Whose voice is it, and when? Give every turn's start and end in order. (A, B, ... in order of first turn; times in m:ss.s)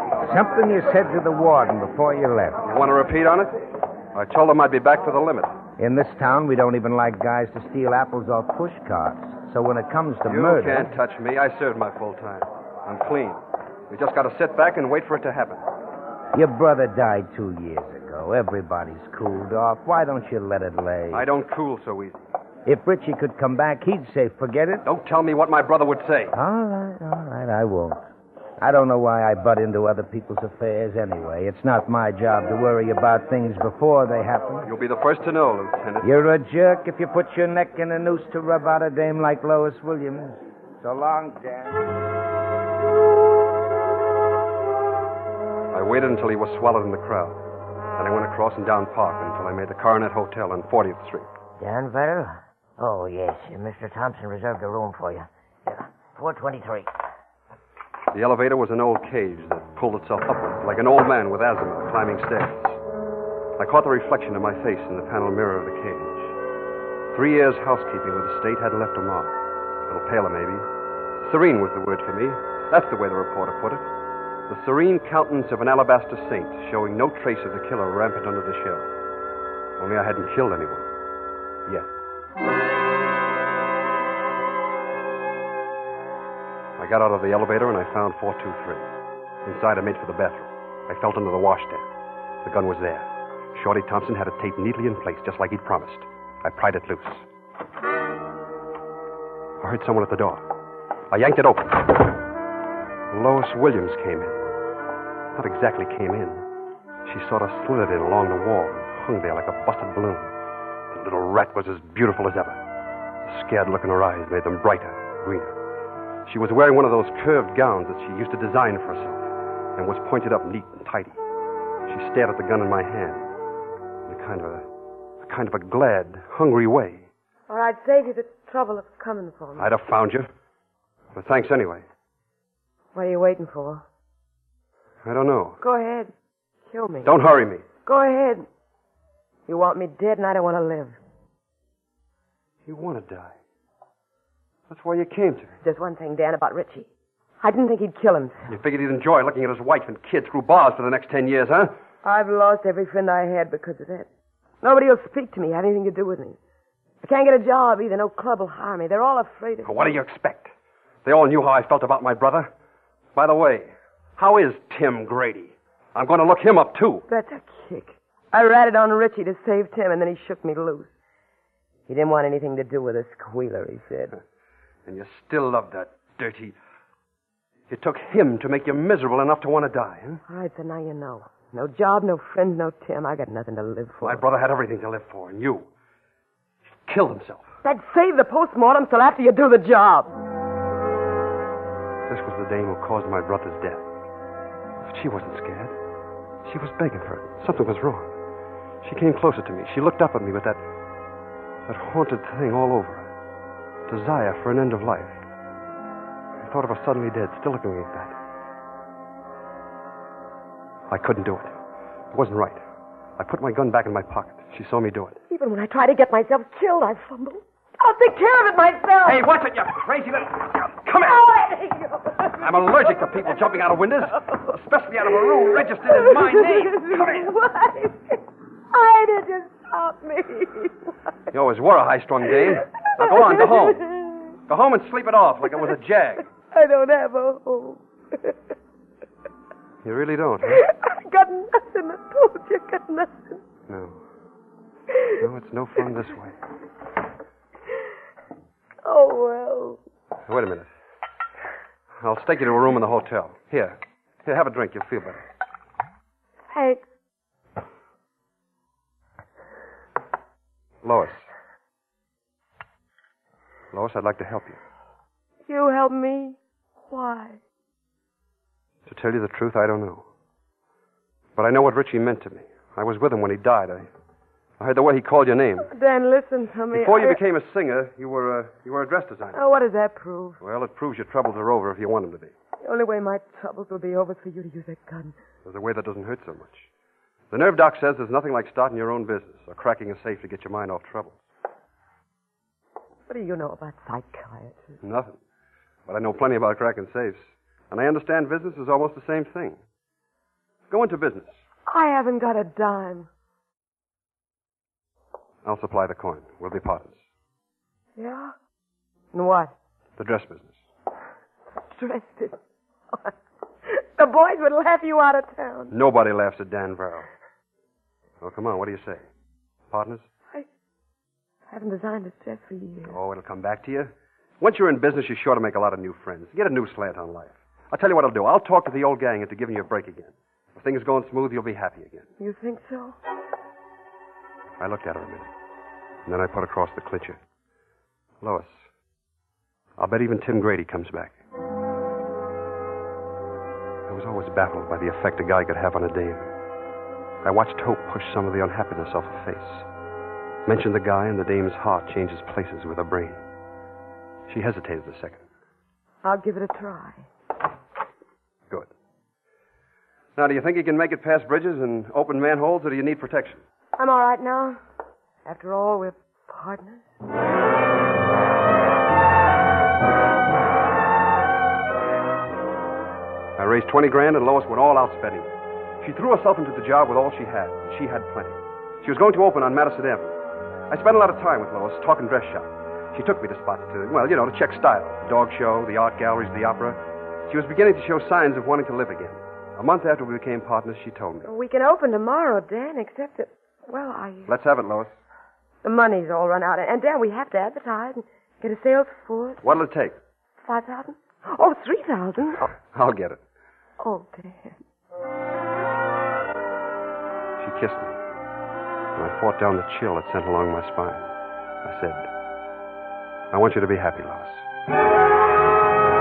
0:00.2-0:02.6 A
0:02.6-0:03.5 B
0:04.1-0:05.5 B
0:05.8-0:10.9 A
0:10.3-0:15.6 B
0:16.3-0:21.2 A
0:21.1-0:22.2 B
0:22.7-0:24.8 A
0:24.8-0:26.3 B
0:26.3-0:28.0 A
0:28.6-0:34.7 A
0:34.6-0:36.1 B
0:36.0-0:41.8 A
0:45.7-0:47.4 B
0:48.0-0:51.3 B
0:51.6-0:56.9 C
0:58.1-1:02.8 B
1:03.6-1:06.3 B
1:07.1-1:09.4 B
1:09.9-1:10.7 B
1:11.2-1:13.9 B
1:14.5-1:18.9 B
1:19.8-1:20.9 B
1:26.8-1:28.8 B
1:29.4-1:31.8 B
1:32.4-1:37.2 B
1:39.6-1:40.4 B
1:41.1-1:42.2 B
1:43.1-1:44.4 B
1:45.4-1:46.4 B
1:47.0-1:50.3 B
1:50.9-1:52.6 B
1:53.3-1:55.5 B
1:56.3-2:01.2 B
2:01.9-2:03.3 B
2:04.1-2:04.6 B
2:05.2-2:07.1 B
2:07.5-2:09.7 D
2:09.6-2:10.3 B
2:11.1-2:11.8 B
2:12.9-2:13.8 D
2:15.0-2:15.6 B
2:15.6-2:16.1 D
2:16.7-2:17.1 D
2:17.0-2:17.6 B
2:17.8-2:18.5 D
2:19.5-2:21.0 D
2:22.7-2:23.3 B
2:24.7-2:25.6 B
2:25.6-2:26.9 D
2:27.4-2:28.4 D
2:28.5-2:31.7 B
2:32.0-2:34.1 D
2:34.6-2:36.4 D
2:37.0-2:40.0 D
2:39.6-2:40.5 B
2:41.0-2:42.5 B
2:43.2-2:47.0 B
2:47.1-2:50.9 D
2:51.9-2:54.2 D
2:54.9-2:56.6 B
2:57.7-3:00.2 B
3:00.3-3:04.2 D
3:04.0-3:05.7 B
3:06.9-3:07.5 B
3:07.6-3:10.1 D
3:12.1-3:13.8 B
3:14.8-3:15.7 B
3:16.4-3:18.1 B
3:18.8-3:20.6 B
3:21.7-3:23.1 B
3:23.9-3:25.2 B
3:26.4-3:28.1 B
3:30.9-3:31.5 B
3:32.1-3:32.6 B
3:33.2-3:35.2 B
3:35.3-3:39.2 D
3:39.0-3:41.2 B
3:41.0-3:42.7 D
3:42.4-3:47.3 B
3:45.9-3:48.2 D
3:48.7-3:50.8 D
3:51.3-3:53.8 B
3:52.5-3:54.3 D
3:54.5-3:56.2 B
3:56.5-3:58.4 D
3:59.8-4:00.6 B
4:00.5-4:03.4 D
4:03.7-4:04.0 B
4:05.2-4:06.4 B
4:08.8-4:09.8 D
4:10.3-4:10.7 B
4:12.0-4:15.2 B
4:16.5-4:16.8 D
4:20.8-4:21.3 B
4:23.7-4:24.6 B
4:25.5-4:26.4 D
4:26.9-4:27.4 D
4:28.9-4:30.0 B
4:31.4-4:33.9 B
4:34.6-4:35.7 B
4:35.6-4:37.2 D
4:36.7-4:39.4 B
4:39.3-4:40.4 D
4:40.4-4:42.3 B
4:42.6-4:45.2 D
4:45.4-4:46.7 B
4:47.3-4:51.2 B
4:53.1-4:54.8 D
4:54.8-4:55.2 B
4:55.9-4:57.2 B
4:57.7-4:59.6 B
5:00.7-5:01.4 B
5:01.7-5:03.1 D
5:05.4-5:07.0 B
5:08.0-5:08.3 D
5:09.1-5:09.5 D
5:10.0-5:10.6 B
5:11.6-5:12.4 D
5:13.7-5:15.7 D
5:15.7-5:17.1 B
5:18.2-5:19.0 B
5:19.7-5:20.0 B
5:21.5-5:23.0 D
5:22.9-5:32.1 B
5:32.2-5:33.0 D
5:34.6-5:35.3 B
5:36.1-5:37.2 B
5:38.2-5:38.6 B
5:39.8-5:41.1 B
5:43.9-5:46.3 B
5:47.2-5:49.6 B
5:50.5-5:53.2 B
5:54.3-5:55.2 B
5:56.0-5:57.1 D
6:00.2-6:03.4 B
6:03.8-6:04.6 D
6:05.3-6:06.8 D
6:13.4-6:15.3 B
6:15.8-6:20.1 B
6:20.7-6:31.3 B
6:31.2-6:34.3 D
6:34.3-6:34.9 B
6:35.6-6:39.4 D
6:39.4-6:40.0 B
6:40.4-6:42.5 D
6:42.7-6:43.2 B
6:43.8-6:44.6 D
6:47.4-6:48.0 B
6:49.0-6:51.1 B
6:51.6-6:52.1 B
6:53.3-6:54.4 B